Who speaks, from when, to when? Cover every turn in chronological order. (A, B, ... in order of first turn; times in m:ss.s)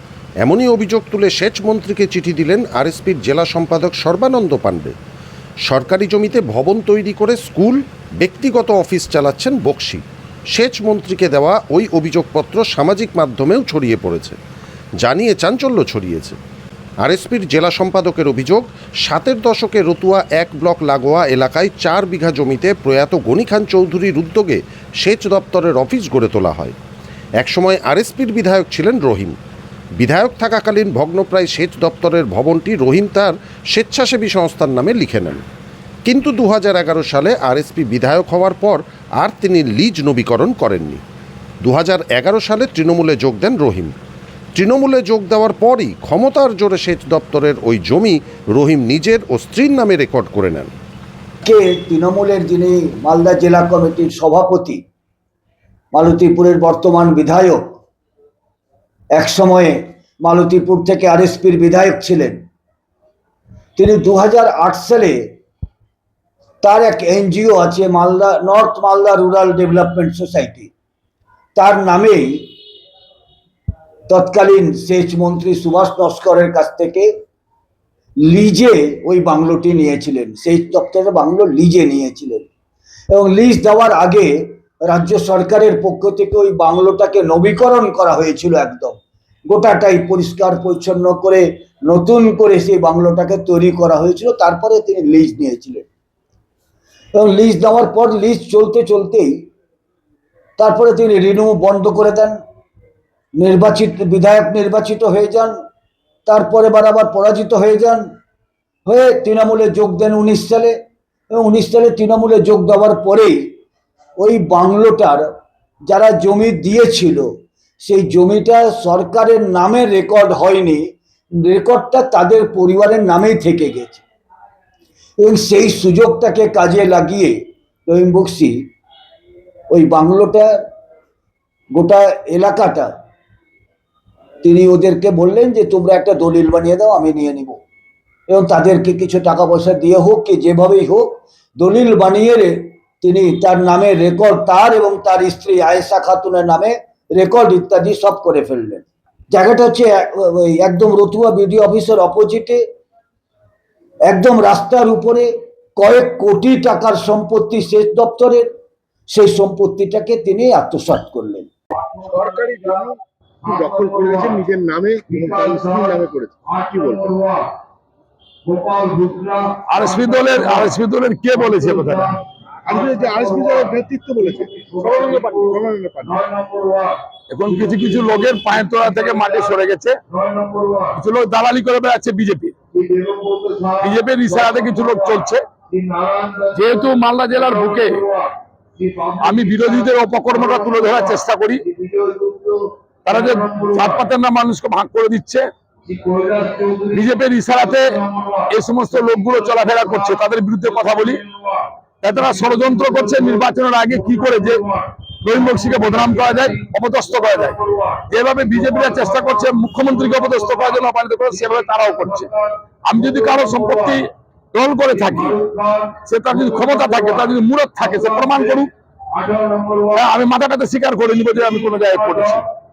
0:00.4-0:04.9 A
0:05.7-0:14.4 A
0:15.0-0:16.4 A
0:17.0-0:26.8 A
0:27.4-0:29.4 A
0:30.0-0:35.4 A
0:36.0-0:41.0 A
0:41.6-0:43.9 A
0:44.6-0:50.7 A
0:51.4-0:54.8 B
0:55.9-0:57.8 B
0:59.1-1:02.4 B
1:03.8-1:05.3 B
1:06.6-1:10.7 B
1:11.6-1:12.5 B
1:14.1-1:17.1 B
1:18.2-1:22.5 B
1:23.1-1:35.9 B
1:37.1-1:39.5 B
1:40.6-1:42.4 B
1:43.4-1:45.5 B
1:46.2-1:48.0 B
1:48.9-1:50.8 B
1:51.3-1:53.5 B
1:54.2-1:55.3 B
1:55.9-1:57.3 B
1:57.8-2:04.0 B
2:05.2-2:08.7 B
2:09.7-2:10.6 B
2:11.7-2:12.9 B
2:14.4-2:17.6 B
2:18.3-2:32.6 B
2:34.1-2:38.5 B
2:39.1-2:41.5 B
2:41.9-2:47.5 C
2:48.5-2:49.6 C
2:49.7-2:52.2 D
2:52.6-2:57.0 C
2:57.3-3:00.0 D
3:00.1-3:00.9 C
3:00.9-3:02.5 D
3:02.8-3:03.8 C
3:03.8-3:05.4 D
3:05.8-3:06.5 C
3:06.5-3:08.0 D
3:08.1-3:09.2 C
3:09.2-3:11.6 D
3:11.7-3:12.6 C
3:13.0-3:15.5 D
3:15.9-3:16.9 C
3:16.9-3:21.2 D
3:18.1-3:18.4 C
3:21.3-3:21.6 C
3:22.0-3:24.7 D
3:25.2-3:32.3 D
3:27.8-3:28.0 C
3:32.9-3:35.4 D
3:35.5-3:36.0 C
3:36.0-3:38.7 D
3:39.2-3:39.9 C
3:39.9-3:42.4 D